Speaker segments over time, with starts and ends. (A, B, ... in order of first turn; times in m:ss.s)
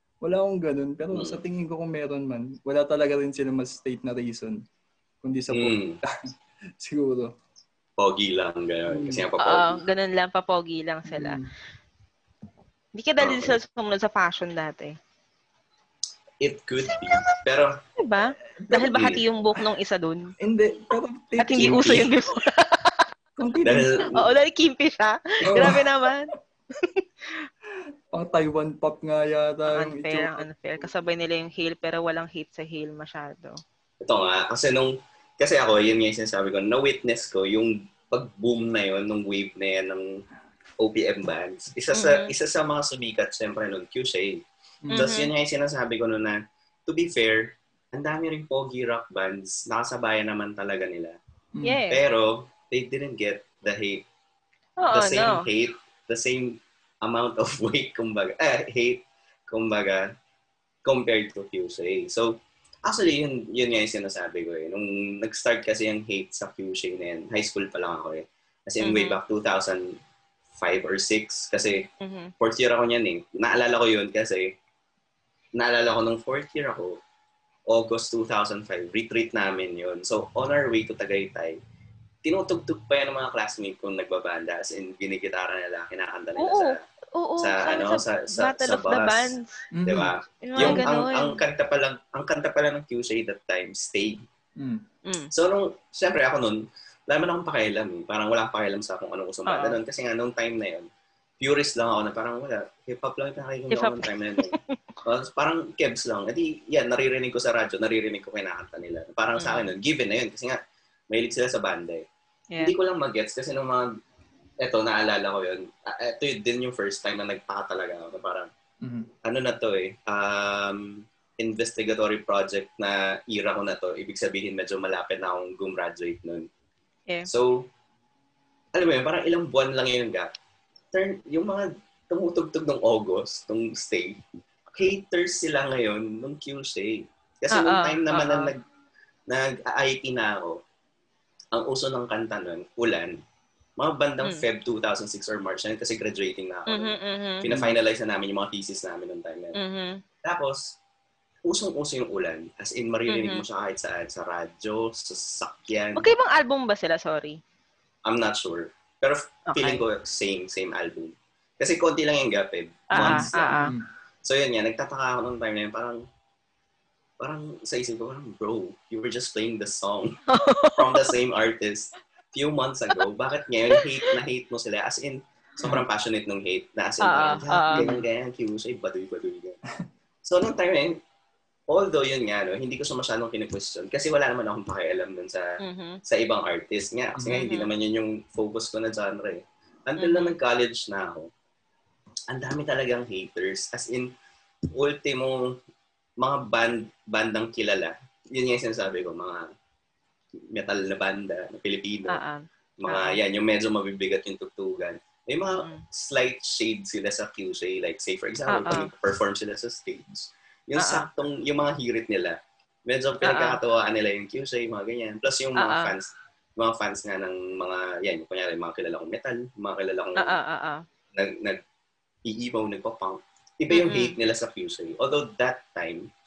0:00.2-0:04.6 A
0:01.1-0:01.4 B
0:05.2-0:06.1 A
0:05.5-0:06.0 B
0:06.8-0:07.3 A
0:08.0-0:09.8 B
0:08.9-0:09.3 A
0:09.4-0:11.4 C
0:11.1-0:11.5 A
0:13.0-0:15.0 C
0:13.2-0:13.6 B
0:16.4-0:17.8 B
0:16.9-0:17.3 C
0:18.0-0:20.4 C
0:18.6-0:19.0 A
0:18.9-0:19.2 B
0:20.4-0:22.1 A
0:21.4-0:23.1 C
0:21.6-0:22.1 B
0:23.4-0:23.9 A
0:23.6-0:24.3 B
0:24.1-0:27.5 C
0:25.4-0:25.9 A
0:28.1-0:30.5 A
0:29.7-0:33.6 C
0:34.0-0:40.2 B
0:40.8-0:51.2 B
0:41.9-0:42.3 C
0:44.8-0:45.1 A
0:44.9-0:45.3 C
0:51.6-0:51.8 A
0:51.6-0:52.0 C
0:51.9-0:54.1 B
0:54.8-0:55.4 C
0:54.9-1:00.1 B
1:00.8-1:10.0 B
1:08.8-1:09.2 C
1:10.6-1:11.9 B
1:12.0-1:12.3 C
1:12.4-1:14.6 B
1:15.6-1:17.0 B
1:17.7-1:21.6 B
1:22.2-1:26.8 B
1:26.4-1:29.6 C
1:27.4-1:34.2 B
1:29.7-1:30.8 A
1:30.4-1:31.4 C
1:34.6-1:34.8 A
1:35.0-1:35.3 C
1:35.3-1:40.9 B
1:39.5-1:39.8 C
1:41.4-1:50.6 B
1:43.7-1:44.6 C
1:49.4-1:49.7 C
1:51.1-1:52.1 B
1:52.6-1:54.0 B
1:54.6-1:58.5 B
1:58.8-1:59.1 A
1:59.2-2:06.5 B
2:07.3-2:07.7 B
2:08.7-2:10.3 B
2:10.9-2:18.6 B
2:17.5-2:18.5 C
2:19.3-2:20.6 B
2:21.5-2:23.2 B
2:23.8-2:29.6 B
2:26.7-2:27.5 C
2:27.5-2:27.8 A
2:29.6-2:30.0 C
2:30.2-2:30.8 B
2:31.5-2:36.1 B
2:33.1-2:33.4 C
2:36.0-2:37.4 C
2:38.1-2:43.6 B
2:39.5-2:39.8 C
2:42.9-2:43.7 C
2:43.0-2:43.9 A
2:44.2-2:46.0 B
2:47.2-2:50.2 B
2:50.3-2:51.1 C
2:50.8-2:59.6 B
2:53.7-2:54.1 C
2:57.0-2:57.9 C
2:57.8-2:58.0 A
3:00.2-3:01.0 B
3:01.7-3:11.3 B
3:05.6-3:06.0 C
3:07.3-3:07.7 C
3:10.0-3:10.4 C
3:12.3-3:14.1 B
3:14.7-3:15.5 B
3:16.2-3:19.5 B
3:20.4-3:22.2 B
3:22.1-3:23.2 C
3:22.8-3:40.4 B
3:25.6-3:25.8 C
3:28.5-3:28.9 C
3:30.8-3:31.1 C
3:33.2-3:33.6 C
3:35.6-3:35.9 C
3:40.2-3:40.8 C
3:41.1-3:41.6 B
3:42.2-3:46.1 B
3:43.7-3:44.2 C